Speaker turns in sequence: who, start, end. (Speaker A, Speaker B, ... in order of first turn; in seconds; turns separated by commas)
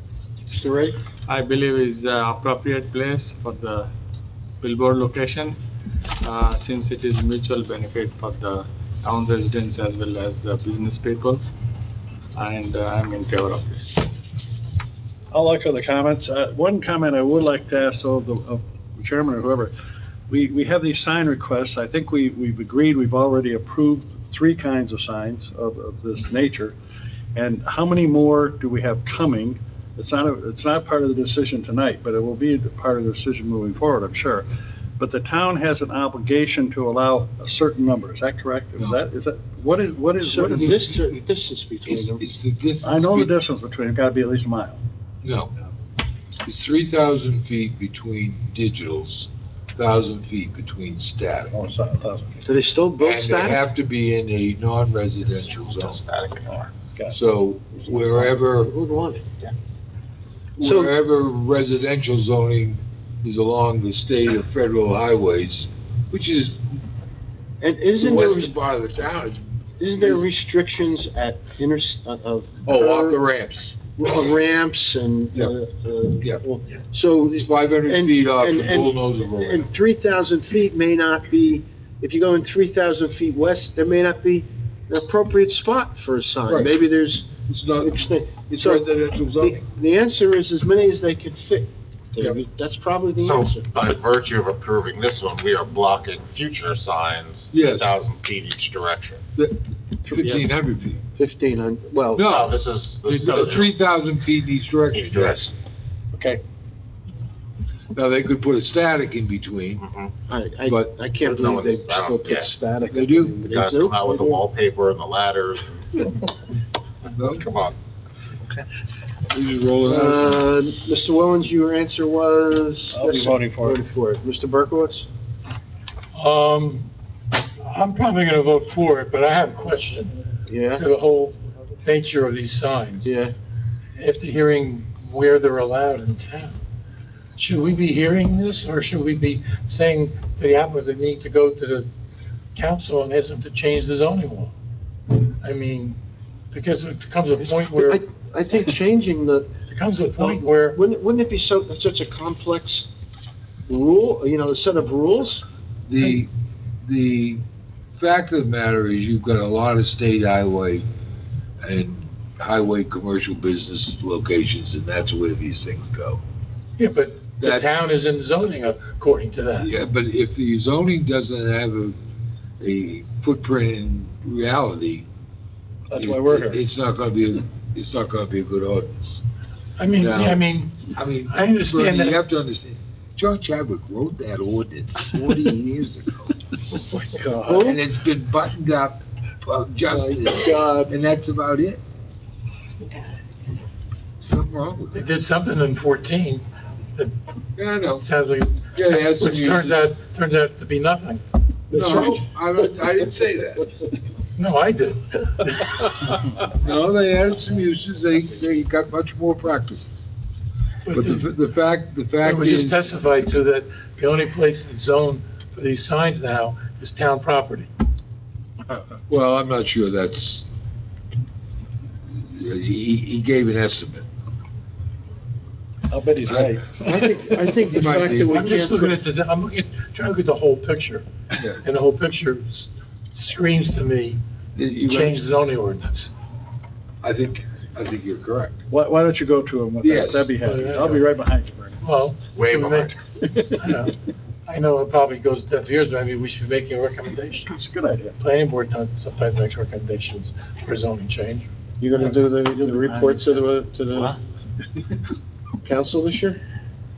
Speaker A: 0.5-1.0, Speaker B: 1.3-3.9, Speaker B: 4.6-5.6, Speaker B: 6.2-11.4, Speaker B: 12.3-13.9, Speaker C: 15.3-19.7, Speaker C: 20.3-26.8, Speaker C: 27.4-34.5, Speaker C: 35.0-40.9, Speaker D: 38.8-39.0, Speaker A: 40.2-42.2, Speaker D: 40.5-41.0, Speaker D: 41.9-43.3, Speaker C: 42.8-44.8, Speaker D: 45.2-45.5, Speaker D: 46.4-51.5, Speaker C: 51.5-52.5, Speaker A: 52.5-53.6, Speaker D: 53.0-56.0, Speaker E: 55.5-56.7, Speaker D: 57.1-58.7, Speaker A: 58.5-59.3, Speaker A: 60.6-61.0, Speaker D: 60.6-66.6, Speaker A: 67.6-68.5, Speaker D: 68.0-70.2, Speaker A: 69.8-73.2, Speaker D: 72.7-73.8, Speaker A: 73.9-93.7, Speaker D: 77.3-79.7, Speaker D: 86.5-89.7, Speaker E: 93.2-99.2, Speaker D: 97.5-97.9, Speaker D: 99.4-101.0, Speaker A: 100.1-100.6, Speaker A: 101.2-102.3, Speaker D: 102.2-105.5, Speaker E: 102.2-103.8, Speaker E: 104.9-105.4, Speaker D: 107.9-109.8, Speaker E: 109.8-110.2, Speaker A: 110.3-114.5, Speaker D: 110.7-111.1, Speaker E: 111.2-112.6, Speaker D: 112.9-113.4, Speaker E: 113.4-116.3, Speaker D: 117.1-117.5, Speaker E: 117.3-117.8, Speaker D: 119.3-120.4, Speaker A: 119.8-125.1, Speaker C: 122.9-123.8, Speaker F: 126.1-126.9, Speaker F: 127.6-130.1, Speaker A: 130.5-130.8, Speaker F: 130.7-133.1, Speaker A: 133.1-133.3, Speaker F: 134.0-136.6, Speaker F: 137.4-141.9, Speaker F: 142.6-144.5, Speaker F: 145.4-146.0, Speaker F: 146.5-148.0, Speaker A: 147.4-149.5, Speaker F: 149.7-150.8, Speaker A: 150.2-152.9, Speaker A: 153.7-155.4, Speaker D: 155.9-156.3, Speaker D: 156.8-157.4, Speaker D: 157.9-160.9, Speaker D: 161.6-166.2, Speaker F: 166.8-169.7, Speaker D: 167.4-167.7, Speaker D: 169.6-172.0, Speaker D: 172.6-175.1, Speaker C: 175.9-176.6, Speaker D: 176.0-179.2, Speaker F: 179.8-182.2, Speaker D: 180.0-186.4, Speaker C: 187.0-187.7, Speaker A: 187.1-187.8, Speaker D: 187.5-191.8, Speaker C: 189.9-190.5, Speaker D: 194.2-195.0, Speaker F: 194.9-196.4, Speaker D: 197.6-198.1, Speaker F: 198.0-201.2, Speaker D: 198.7-199.9, Speaker D: 201.7-203.7, Speaker A: 201.7-202.2, Speaker F: 204.4-206.2, Speaker D: 206.6-210.1, Speaker F: 210.8-211.2, Speaker D: 210.9-212.9, Speaker F: 212.2-217.7, Speaker D: 219.1-220.5, Speaker D: 222.1-224.1, Speaker C: 225.9-227.0, Speaker A: 226.8-229.0, Speaker D: 227.6-228.5, Speaker F: 228.3-231.1, Speaker D: 231.3-231.6, Speaker F: 231.6-234.2, Speaker D: 234.6-235.2, Speaker F: 234.8-236.1, Speaker D: 237.0-238.6, Speaker C: 238.7-241.8, Speaker D: 239.8-240.3, Speaker F: 240.3-241.1, Speaker F: 241.8-243.0, Speaker E: 242.3-242.9, Speaker F: 243.5-243.9, Speaker F: 244.5-247.5, Speaker C: 247.5-248.2, Speaker F: 248.2-251.5, Speaker A: 251.8-254.2, Speaker C: 252.7-253.2, Speaker A: 255.6-256.4